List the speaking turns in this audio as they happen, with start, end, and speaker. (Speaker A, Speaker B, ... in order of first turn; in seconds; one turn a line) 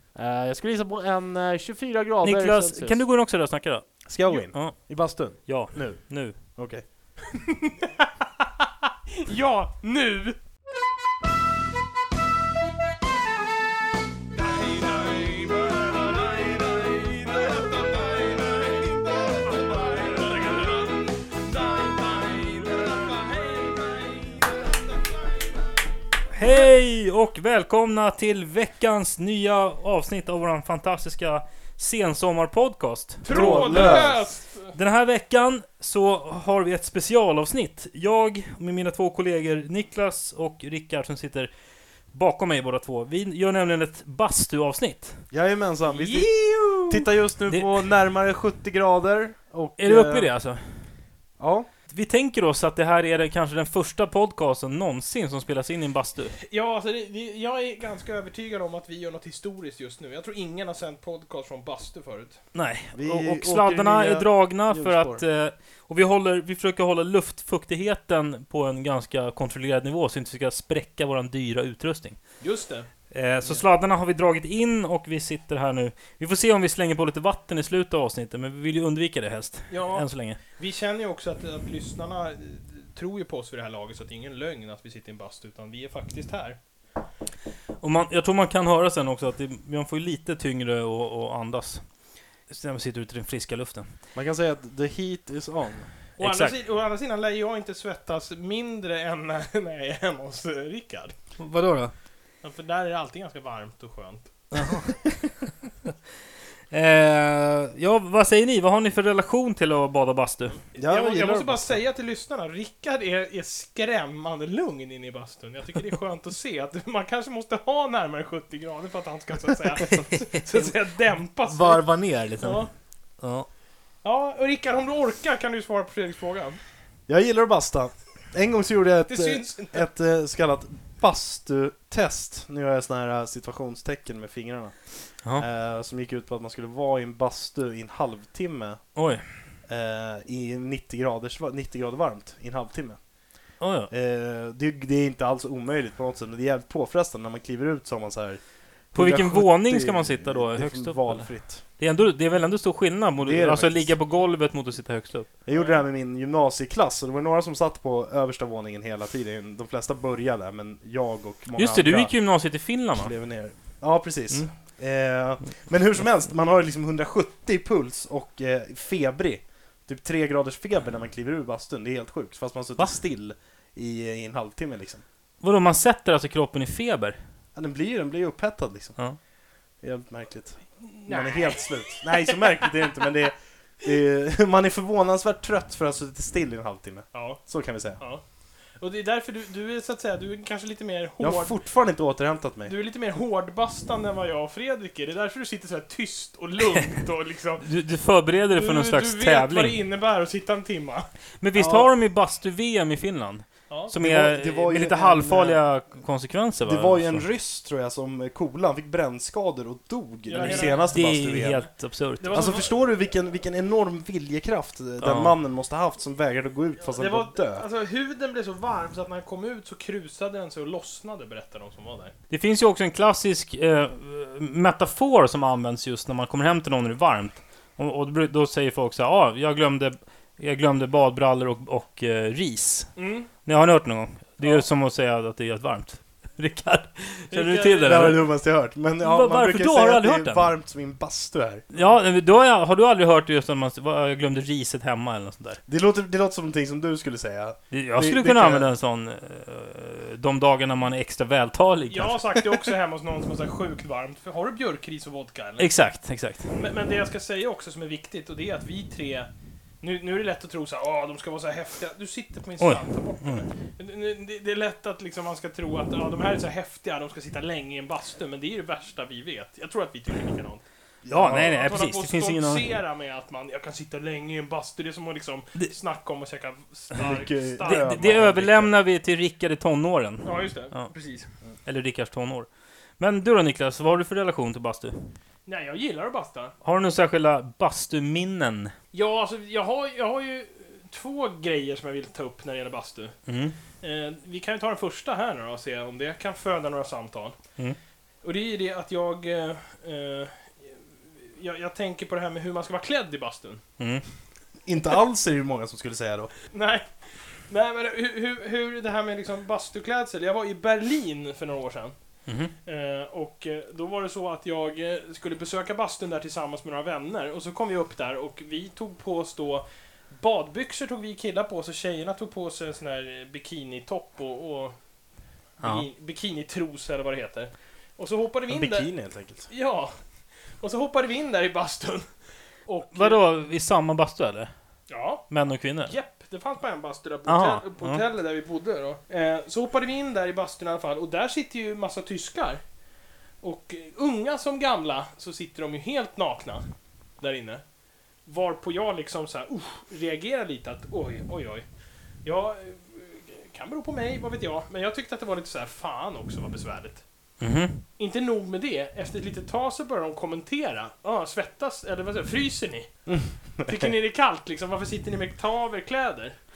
Speaker A: 0.1-3.0
Speaker B: 2.2-4.0
Speaker A: 4.0-6.8
Speaker B: 4.5-6.3
Speaker C: 7.3-8.2
Speaker C: 9.1-10.4
Speaker C: 14.3-25.6
Speaker B: 26.3-34.1
Speaker C: 33.2-34.7
Speaker A: 33.2-34.1
Speaker B: 34.7-41.5
Speaker B: 42.1-45.2
Speaker A: 45.3-50.3
Speaker C: 45.9-46.3
Speaker B: 49.8-50.9
Speaker A: 51.4-51.7
Speaker B: 51.9-56.4
Speaker C: 56.4-62.4
Speaker B: 62.5-72.2
Speaker A: 62.9-65.2
Speaker C: 72.4-72.9
Speaker B: 73.1-80.4
Speaker C: 79.7-86.6
Speaker B: 87.8-91.8
Speaker B: 92.5-93.9
Speaker A: 94.1-95.9
Speaker B: 96.2-96.5
Speaker C: 96.2-101.1
Speaker B: 101.4-101.9
Speaker C: 102.4-104.3
Speaker B: 104.5-105.1
Speaker B: 106.7-110.6
Speaker A: 110.7-111.8
Speaker C: 110.7-121.8
Speaker B: 119.9-120.7
Speaker B: 121.5-122.6
Speaker C: 122.4-122.7
Speaker B: 123.2-123.5
Speaker C: 124.0-126.6
Speaker A: 127.1-138.9
Speaker C: 129.1-129.9
Speaker B: 138.9-139.3
Speaker A: 139.7-143.0
Speaker B: 143.6-143.9
Speaker A: 143.9-148.4
Speaker A: 148.9-151.6
Speaker B: 148.9-155.3
Speaker A: 153.2-153.9
Speaker A: 155.4-162.1
Speaker C: 155.5-155.8
Speaker B: 161.6-163.1
Speaker A: 162.9-175.0
Speaker B: 175.4-177.2
Speaker A: 177.5-179.0
Speaker A: 179.8-188.0
Speaker C: 180.8-182.4
Speaker C: 187.1-187.4
Speaker C: 188.0-188.2
Speaker C: 188.8-191.5
Speaker A: 191.2-192.7
Speaker C: 192.7-197.7
Speaker B: 197.6-199.8
Speaker C: 198.5-201.1
Speaker B: 201.4-207.2
Speaker A: 201.5-201.9
Speaker A: 204.0-205.6
Speaker A: 206.6-211.6
Speaker C: 210.3-211.0
Speaker B: 210.4-212.5
Speaker C: 212.2-212.7
Speaker A: 212.3-217.6
Speaker B: 215.0-215.3
Speaker C: 216.9-222.1
Speaker B: 222.3-238.3
Speaker C: 232.9-233.3
Speaker C: 237.3-238.1
Speaker A: 237.8-241.6
Speaker B: 239.0-240.5
Speaker B: 241.7-245.6
Speaker A: 245.7-248.7
Speaker B: 247.7-252.6
Speaker C: 251.9-255.7
Speaker B: 255.6-256.5
Speaker C: 256.5-259.3
Speaker C: 259.8-270.6
Speaker B: 262.6-263.4
Speaker A: 271.0-271.6
Speaker B: 271.1-272.7
Speaker C: 271.4-278.2
Speaker A: 276.9-278.7
Speaker B: 277.6-280.9
Speaker C: 280.2-281.3
Speaker B: 281.6-282.5
Speaker B: 283.0-285.1
Speaker C: 285.4-286.5
Speaker B: 286.6-288.7
Speaker C: 288.9-293.1
Speaker B: 293.3-293.6
Speaker C: 293.8-297.4
Speaker C: 298.2-303.6
Speaker B: 303.8-304.0
Speaker A: 304.6-306.3
Speaker C: 306.5-311.9
Speaker B: 312.3-312.5
Speaker C: 312.6-324.8
Speaker C: 325.6-328.9
Speaker A: 328.5-329.5
Speaker C: 329.5-329.9
Speaker C: 330.6-332.1
Speaker C: 332.6-333.2
Speaker B: 332.9-334.5
Speaker C: 334.9-335.2
Speaker B: 335.3-335.9
Speaker C: 335.8-342.6
Speaker B: 337.3-338.0
Speaker C: 343.4-346.6
Speaker C: 347.2-347.6
Speaker C: 348.2-351.6
Speaker C: 352.2-357.0
Speaker B: 357.4-357.9
Speaker C: 358.0-362.9
Speaker A: 363.1-363.9
Speaker C: 363.6-366.4